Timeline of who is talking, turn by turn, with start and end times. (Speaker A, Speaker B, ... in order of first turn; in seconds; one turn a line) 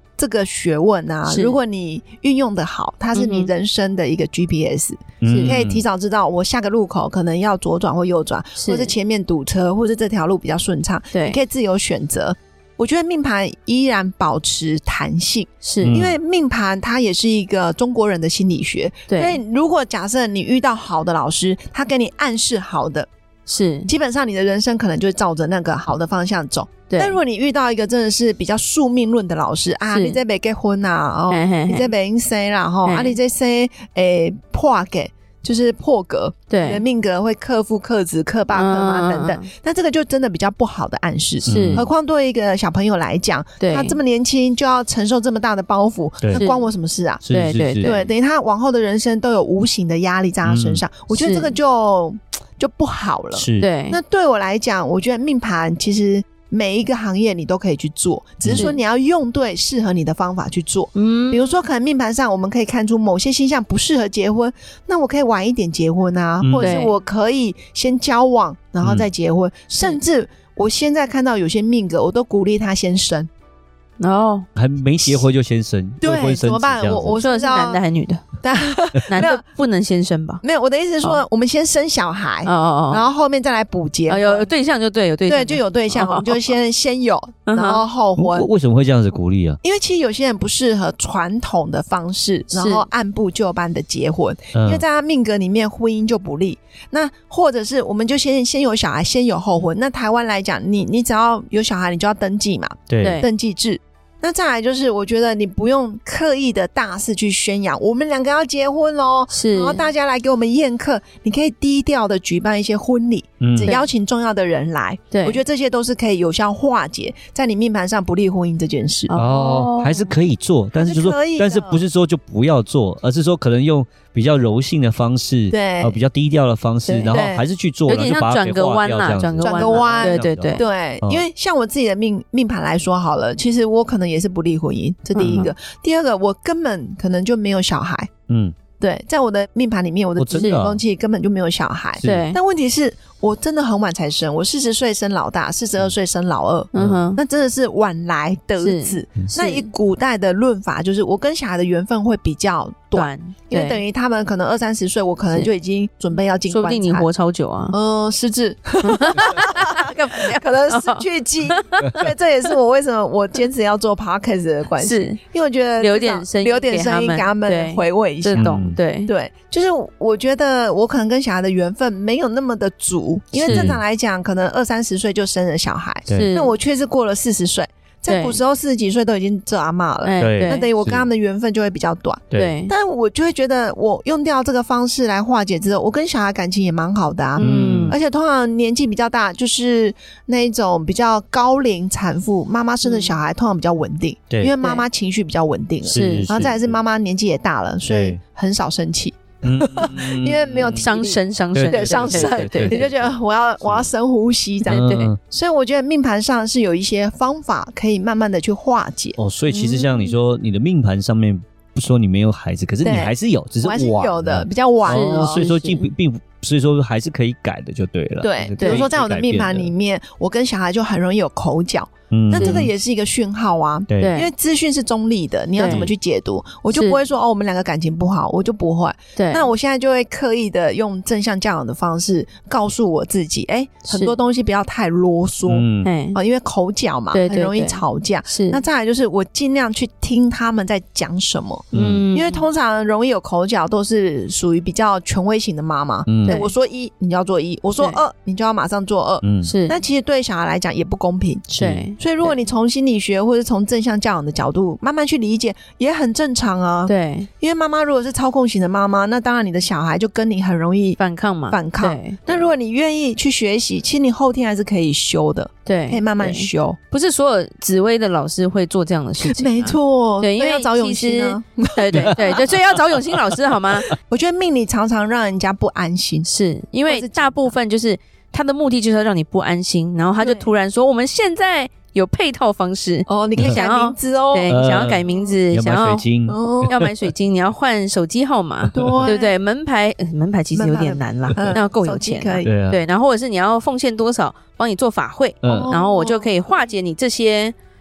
Speaker A: 0.2-23.1
Speaker B: 1.3-1.6
Speaker B: 3.1-3.5
Speaker C: 5.2-5.8
Speaker B: 5.2-5.5
Speaker B: 8.6-8.9
Speaker B: 11.1-11.4
Speaker B: 15.6-16.0
Speaker C: 15.8-16.2
Speaker B: 19.1-19.4
Speaker B: 23.5-23.9
Speaker A: 23.9-47.2
Speaker B: 26.9-27.2
Speaker B: 29.9-30.2
Speaker B: 31.3-31.9
Speaker B: 32.9-33.2
Speaker B: 36.5-36.8
Speaker B: 38.5-39.5
Speaker B: 41.5-41.9
Speaker C: 41.5-41.9
Speaker B: 43.6-44.0
Speaker B: 46.3-46.7
Speaker C: 47.2-47.9
Speaker B: 47.3-48.1
Speaker A: 47.8-73.3
Speaker C: 50.5-50.8
Speaker B: 51.1-51.6
Speaker C: 53.3-53.7
Speaker B: 53.6-54.0
Speaker C: 58.4-58.7
Speaker B: 58.5-58.8
Speaker B: 61.0-61.6
Speaker C: 66.4-66.7
Speaker B: 66.6-67.0
Speaker C: 68.8-69.1
Speaker B: 74.0-74.5
Speaker C: 74.5-77.2
Speaker A: 75.0-75.3
Speaker A: 76.0-77.8
Speaker B: 77.2-78.3
Speaker A: 78.4-79.4
Speaker B: 79.1-80.4
Speaker A: 80.4-84.5
Speaker B: 82.5-83.1
Speaker B: 84.1-86.5
Speaker A: 85.3-88.5
Speaker B: 87.5-87.8
Speaker C: 88.2-89.6
Speaker A: 89.6-119.1
Speaker B: 92.5-92.9
Speaker C: 94.5-94.8
Speaker C: 102.9-103.2
Speaker B: 103.0-103.3
Speaker B: 109.3-109.8
Speaker C: 113.4-113.7
Speaker B: 115.1-115.4
Speaker B: 119.1-120.1
Speaker C: 119.1-131.2
Speaker A: 120.8-121.8
Speaker A: 125.5-126.0
Speaker B: 126.9-127.3
Speaker A: 127.1-127.5
Speaker B: 127.9-130.6
Speaker A: 129.4-138.1
Speaker B: 135.1-135.5
Speaker C: 138.3-138.6
Speaker A: 138.8-157.1
Speaker C: 140.2-140.8
Speaker B: 140.3-140.6
Speaker C: 142.0-142.2
Speaker B: 142.0-142.4
Speaker B: 146.7-147.2
Speaker B: 148.6-149.7
Speaker B: 152.9-153.8
Speaker B: 156.5-157.8
Speaker A: 157.7-209.2
Speaker B: 158.8-162.0
Speaker B: 164.8-165.2
Speaker B: 165.8-169.1
Speaker C: 168.3-168.8
Speaker B: 173.4-173.7
Speaker C: 173.4-173.8
Speaker B: 176.1-176.6
Speaker B: 178.1-178.4
Speaker B: 180.0-180.7
Speaker C: 180.2-181.1
Speaker B: 182.3-182.7
Speaker B: 187.4-188.0
Speaker C: 187.4-188.0
Speaker B: 192.8-193.1
Speaker B: 194.6-194.9
Speaker C: 195.8-196.7
Speaker B: 195.9-196.3
Speaker C: 197.8-198.2
Speaker C: 199.4-200.8
Speaker B: 200.7-202.8
Speaker C: 201.5-203.9
Speaker C: 204.7-205.2
Speaker B: 204.7-205.1
Speaker C: 209.2-219.7
Speaker B: 209.5-210.1
Speaker A: 212.8-215.4
Speaker B: 214.9-215.9
Speaker A: 218.2-261.0
Speaker B: 218.6-218.9
Speaker C: 222.1-222.7
Speaker B: 222.3-222.7
Speaker C: 223.9-224.2
Speaker B: 224.0-224.3
Speaker B: 225.6-225.9
Speaker C: 225.6-225.9
Speaker B: 226.7-227.0
Speaker B: 229.2-229.5
Speaker B: 233.8-234.2
Speaker C: 235.5-235.9
Speaker B: 235.8-236.2
Speaker B: 237.1-238.6
Speaker C: 241.7-242.0
Speaker B: 241.7-242.5
Speaker C: 246.1-246.4
Speaker B: 246.2-246.5
Speaker C: 249.2-249.5
Speaker B: 249.4-249.8
Speaker B: 251.5-252.4
Speaker C: 251.6-251.9
Speaker B: 256.9-257.3
Speaker B: 261.0-262.4
Speaker A: 261.5-266.8
Speaker B: 265.6-273.9
Speaker A: 269.2-272.5
Speaker A: 273.8-276.3
Speaker B: 276.2-286.1
Speaker A: 276.9-277.5
Speaker A: 280.2-280.5
Speaker A: 283.1-284.5
Speaker C: 284.5-286.7
Speaker A: 286.3-286.7
Speaker B: 286.7-297.6
Speaker C: 288.7-289.1
Speaker A: 288.7-289.3
Speaker A: 290.5-292.5
Speaker C: 292.4-292.8
Speaker C: 295.4-295.7
Speaker A: 295.4-296.3